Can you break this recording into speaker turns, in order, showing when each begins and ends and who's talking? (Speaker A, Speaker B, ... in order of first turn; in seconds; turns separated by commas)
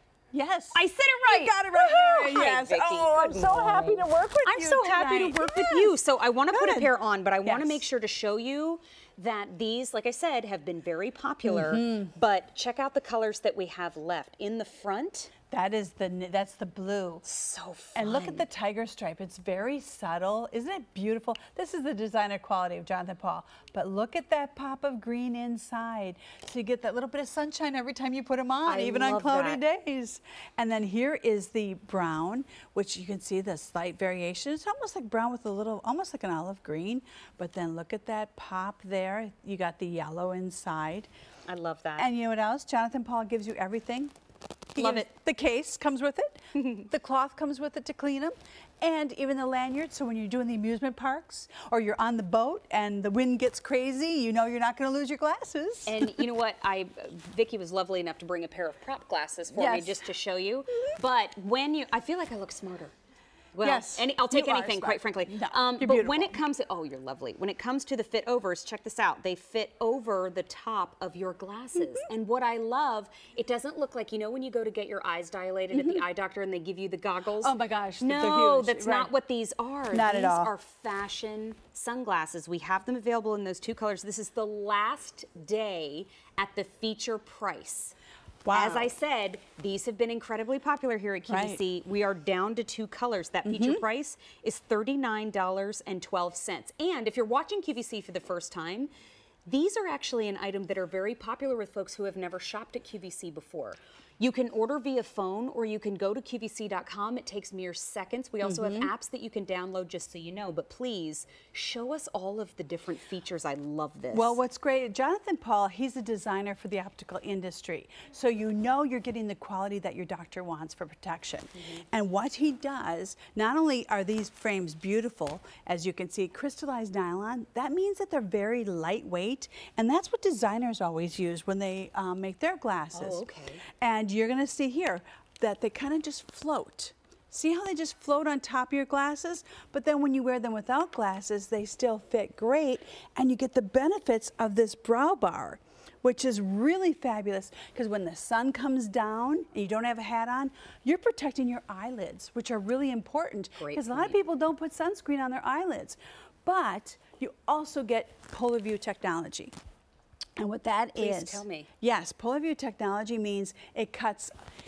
Speaker A: 0.3-6.0, Speaker B: 0.8-15.3, Speaker A: 6.5-6.9, Speaker A: 7.4-7.8, Speaker A: 11.4-12.1, Speaker A: 15.5-17.2, Speaker B: 17.2-18.5, Speaker A: 18.0-41.1, Speaker B: 28.7-29.6, Speaker B: 41.5-42.1, Speaker A: 42.0-44.1, Speaker A: 44.8-56.3, Speaker B: 44.8-45.1, Speaker B: 46.6-46.9, Speaker B: 55.9-62.9, Speaker A: 59.5-60.0, Speaker B: 63.5-88.0, Speaker A: 63.6-66.4, Speaker A: 75.7-76.0, Speaker A: 77.4-79.1, Speaker A: 79.9-80.5, Speaker A: 88.5-88.9, Speaker B: 88.5-98.9, Speaker A: 91.3-91.6, Speaker A: 93.5-93.8, Speaker B: 99.5-114.4, Speaker A: 108.4-108.9, Speaker A: 114.1-159.5, Speaker B: 132.9-133.6, Speaker B: 153.6-154.2, Speaker A: 160.4-164.3, Speaker B: 161.0-161.7